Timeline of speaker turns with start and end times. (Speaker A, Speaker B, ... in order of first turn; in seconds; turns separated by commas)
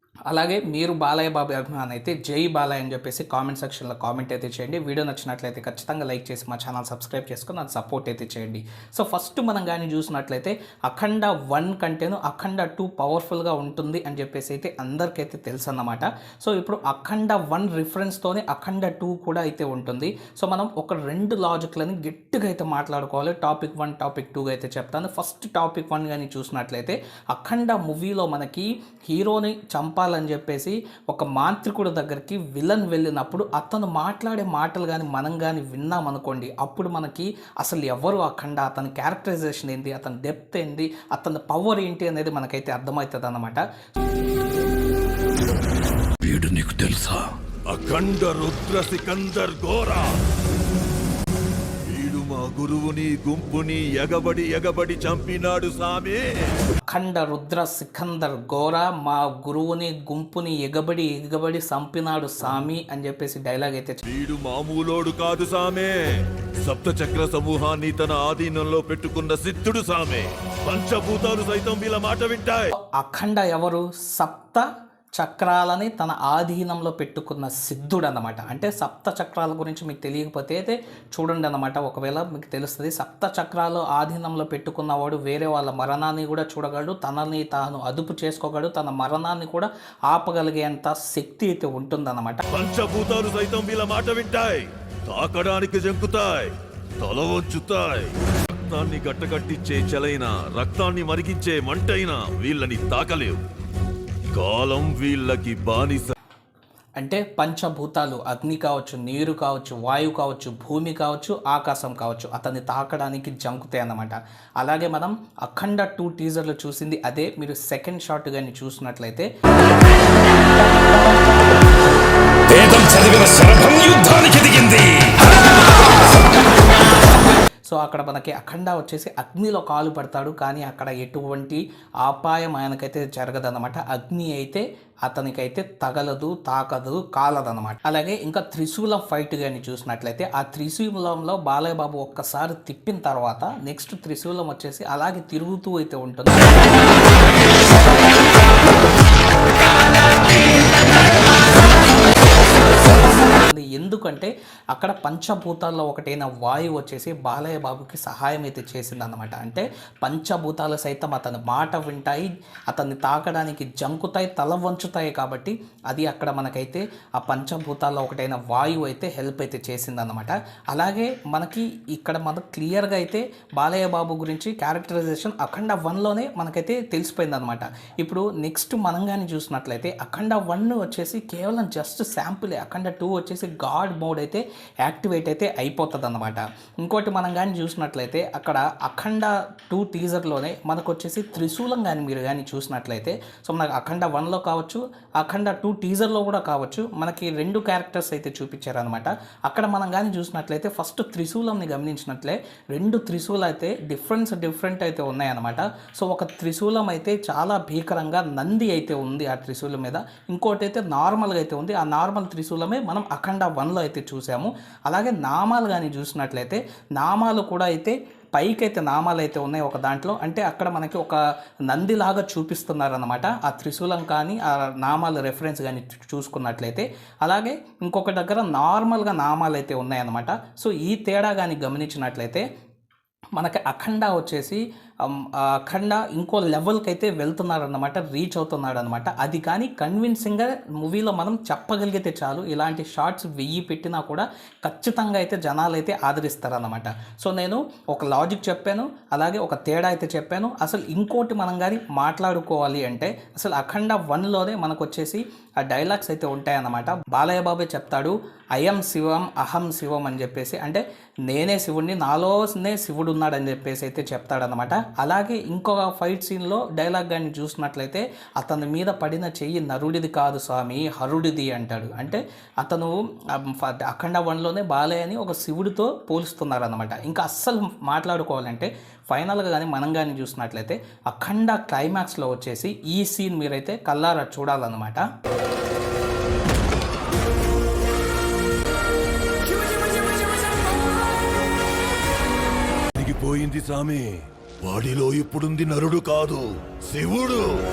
Speaker A: 0.3-43.6, Speaker B: 46.4-47.2, Speaker C: 47.7-50.2, Speaker C: 51.9-56.6, Speaker A: 56.9-64.0, Speaker C: 64.0-72.7, Speaker A: 72.8-74.7, Speaker A: 75.2-92.4, Speaker C: 92.5-103.4, Speaker C: 104.3-106.1, Speaker A: 107.0-119.3, Speaker B: 122.7-124.4, Speaker A: 127.2-146.8, Speaker A: 152.8-232.4, Speaker A: 233.3-285.0, Speaker C: 292.9-297.6